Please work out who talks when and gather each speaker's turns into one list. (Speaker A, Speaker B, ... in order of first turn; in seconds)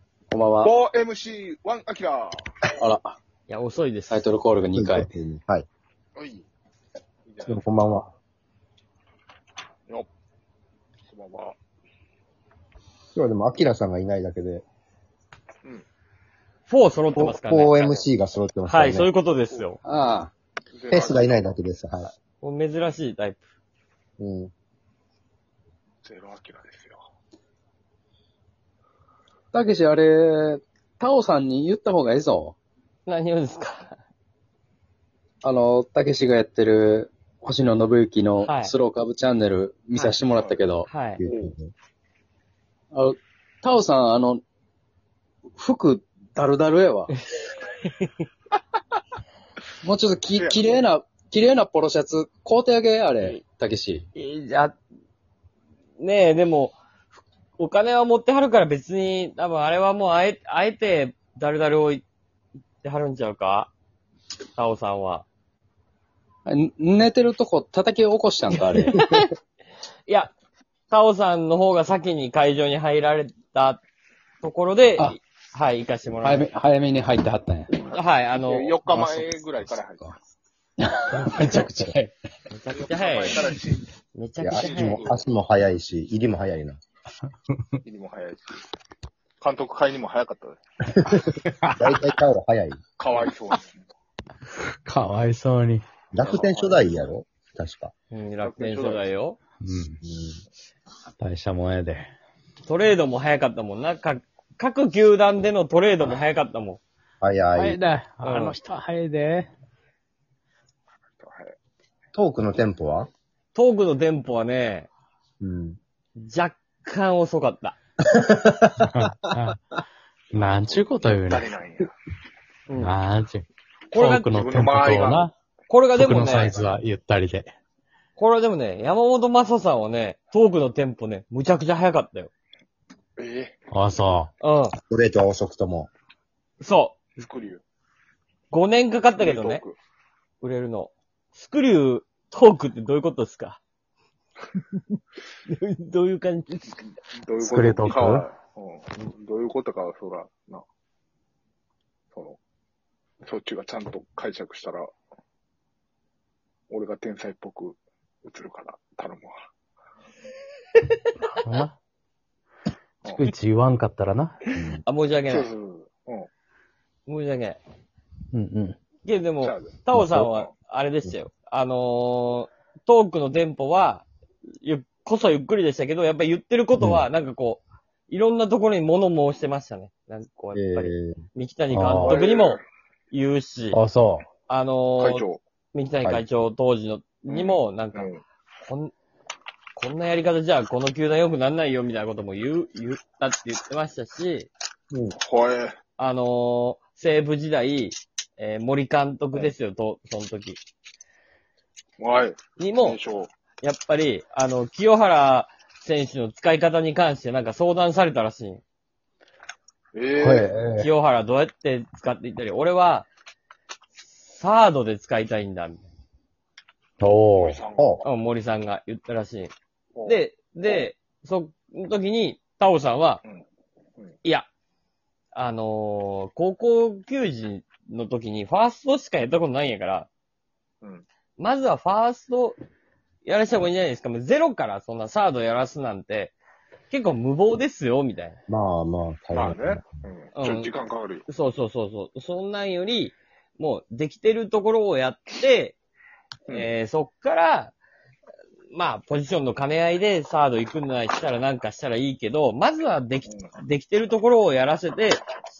Speaker A: 0.3-0.7, 2.8-3.1, 4.1-5.1, 19.8-20.3, 29.5-32.6, 35.4-40.9, 42.9-44.4, 45.6-47.1, 49.8-54.0, 66.5-69.0, 76.2-77.7, 78.9-80.1
Speaker B: 0.6-2.4, 6.2-6.5, 7.3-7.7, 11.1-11.6, 20.7-21.4, 26.0-27.0, 40.3-40.6, 41.2-41.5, 50.4-50.8, 78.4-80.1, 82.7-83.9, 84.5-85.2, 87.8-88.6, 89.4-90.6, 93.0-93.9, 96.2-96.8, 98.4-99.1, 111.2-111.5, 120.3-121.9, 124.3-125.3, 126.1-126.5, 133.2-133.6, 137.2-137.6, 139.2-139.8, 147.1-150.6, 152.1-152.4, 153.3-154.9, 156.7-159.3, 165.3-166.3, 169.4-170.5, 182.0-182.6, 185.0-185.4, 187.3-188.2, 195.2-195.8, 202.0-203.3, 209.9-210.5, 217.4-218.1, 219.9-220.8, 239.3-241.3, 253.2-253.5
Speaker C: 3.5-4.3, 16.7-18.1, 18.7-19.8, 22.4-23.4, 33.1-34.0, 38.5-38.7, 40.9-41.2, 47.2-48.1, 54.1-54.8, 56.0-56.8, 57.6-62.0, 62.8-63.7, 64.6-65.3, 68.5-69.3, 70.1-70.3, 70.9-73.8, 74.4-76.5, 77.7-79.2, 82.5-83.5, 84.2-85.1, 98.1-99.4, 102.7-106.8, 108.2-108.6, 113.5-114.9, 116.2-117.8, 122.7-123.0, 123.9-124.3, 125.7-126.7, 128.2-132.3, 134.4-134.7, 136.6-137.0, 138.5-139.6, 140.4-143.6, 145.5-146.8, 164.9-165.5, 167.1-167.6, 169.0-174.1, 174.6-183.8, 184.5-188.1, 188.7-188.9, 189.8-194.5, 196.0-200.6, 202.6-203.0, 203.6-208.6, 210.8-213.1, 214.0-215.8, 218.0-219.5, 220.1-223.2, 225.3-230.1, 231.4-232.6, 233.2-236.4, 236.9-238.4, 240.3-240.7, 241.3-245.8, 246.5-247.7, 248.7-255.2
Speaker D: 4.7-5.7, 7.5-8.1, 13.1-14.7, 17.1-19.1, 20.9-22.1, 24.2-24.5, 41.2-41.7, 84.4-86.8, 91.0-92.8, 96.1-97.9, 100.0-100.4, 107.2-107.8, 112.1-113.1, 115.4-115.8, 118.0-118.9, 134.9-135.9, 164.5-164.8, 180.5-181.2, 238.5-240.0
Speaker E: 81.1-82.1, 91.2-91.9, 94.9-95.8, 99.6-100.0, 101.2-102.1, 107.5-109.5, 118.9-119.6, 120.3-121.5, 122.8-125.3, 126.0-127.5, 133.7-134.3, 147.4-148.3, 161.4-161.8, 163.1-164.4, 168.3-168.8, 176.8-177.1, 181.7-182.2, 183.7-184.3, 210.2-210.9, 217.0-217.6